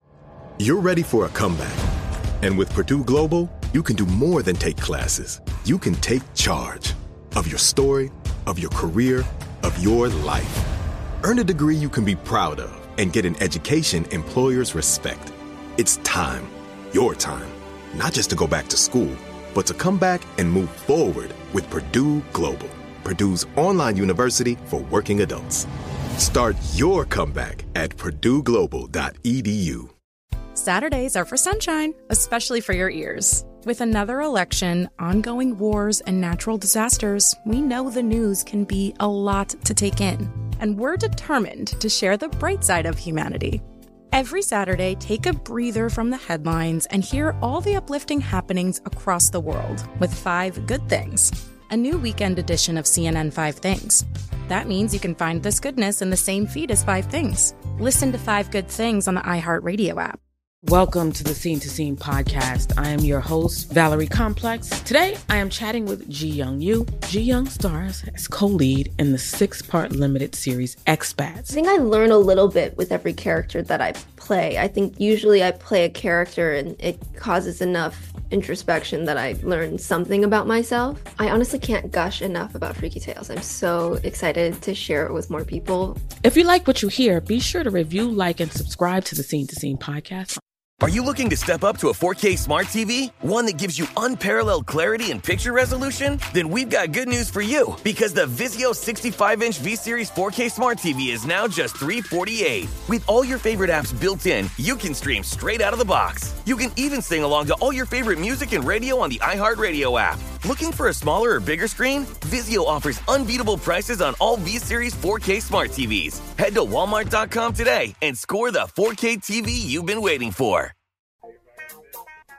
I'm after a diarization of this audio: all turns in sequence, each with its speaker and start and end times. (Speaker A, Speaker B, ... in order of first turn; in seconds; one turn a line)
Speaker A: 0.6-1.8
Speaker A: 2.4-10.7
Speaker A: 11.2-25.7
Speaker A: 26.2-29.9
Speaker B: 30.6-60.2
Speaker C: 60.6-71.6
Speaker D: 71.5-86.0
Speaker C: 86.2-90.4
Speaker E: 90.8-120.7